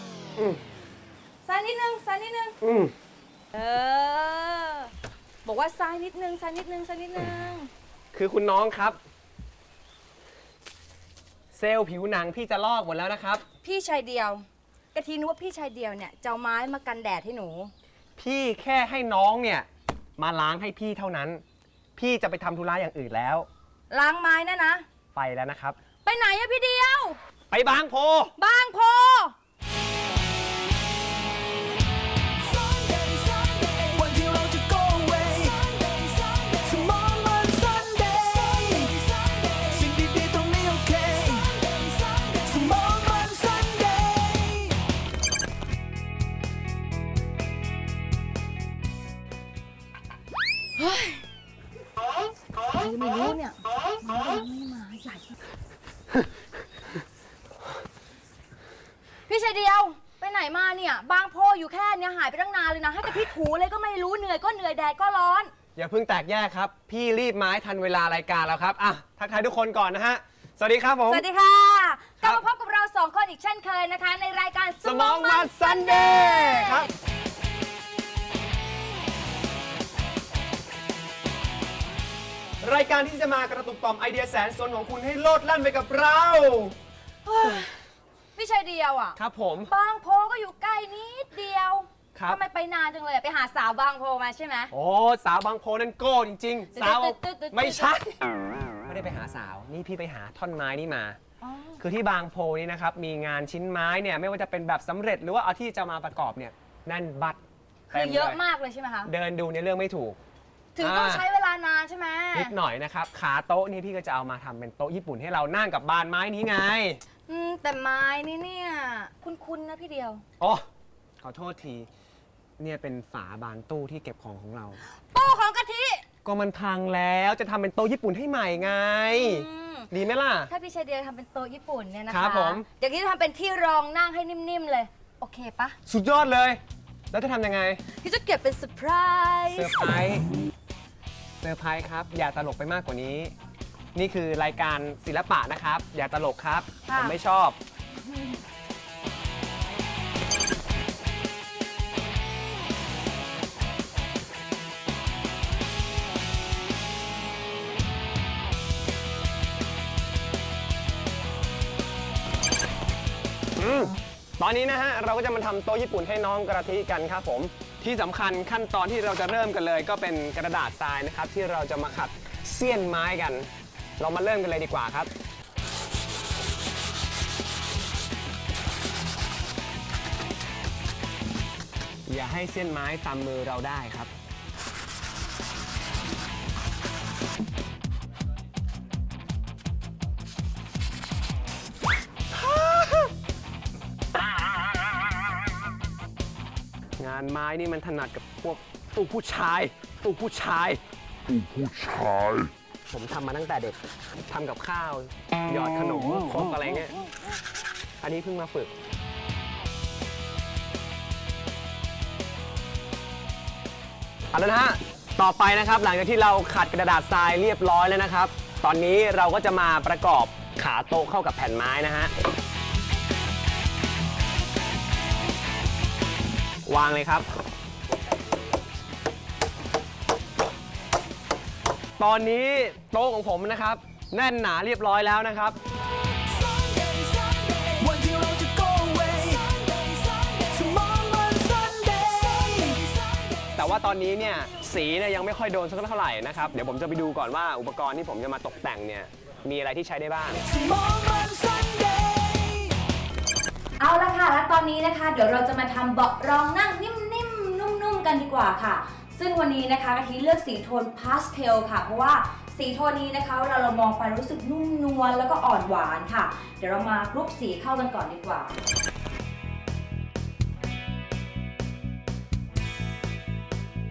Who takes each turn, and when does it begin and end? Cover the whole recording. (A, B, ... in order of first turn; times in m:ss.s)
0:00.4-0:00.6 A
0:01.4-0:02.6 B
0:02.6-0:02.9 A
0:03.5-0:04.9 B
0:05.4-0:07.7 B
0:08.1-0:09.0 A
0:11.5-0:13.4 A
0:13.6-0:17.7 B
0:18.2-0:21.4 A
0:22.0-0:23.5 A
0:23.9-0:24.8 B
0:25.1-0:25.8 A
0:26.0-0:27.2 B
0:27.5-0:28.3 A
0:28.4-0:29.4 B
0:32.4-0:44.8 C
0:50.8-0:51.2 B
0:52.7-0:55.3 B
0:59.3-1:05.5 B
1:05.8-1:11.2 A
1:11.1-1:16.9 B
1:14.8-1:16.9 A
1:22.6-1:26.8 A
1:27.2-1:27.8 B
1:28.4-1:34.7 B
1:29.2-1:29.7 A
1:32.2-1:32.4 A
1:34.7-1:38.2 A
1:36.7-1:37.9 B
1:38.8-1:41.2 A
1:41.4-1:41.8 B
1:41.8-1:47.4 A
1:47.9-1:49.1 B
1:47.9-1:48.4 A
1:49.0-1:50.2 A
1:50.8-1:52.5 B
1:50.8-1:51.2 A
1:52.3-1:57.0 A
1:57.3-2:00.2 B
2:00.4-2:00.6 A
2:01.2-2:01.9 A
2:02.6-2:04.8 A
2:05.0-2:06.0 B
2:06.2-2:10.5 A
2:09.1-2:09.9 B
2:10.5-2:15.8 B
2:12.1-2:12.7 A
2:15.8-2:17.8 A
2:18.0-2:19.8 B
2:19.5-2:20.2 A
2:21.4-2:23.3 A
2:23.9-2:27.6 A
2:26.9-2:27.2 B
2:43.6-2:55.1 A
3:02.1-3:04.1 A
3:12.3-3:13.1 A
3:17.0-3:23.8 A
3:24.3-3:26.9 A
3:28.0-3:28.7 A
3:34.3-3:42.1 A
3:46.6-3:47.3 A
3:52.0-3:55.6 A
3:56.0-4:03.6 C
4:03.6-4:10.4 A
4:10.4-4:12.8 C
4:13.8-4:28.6 B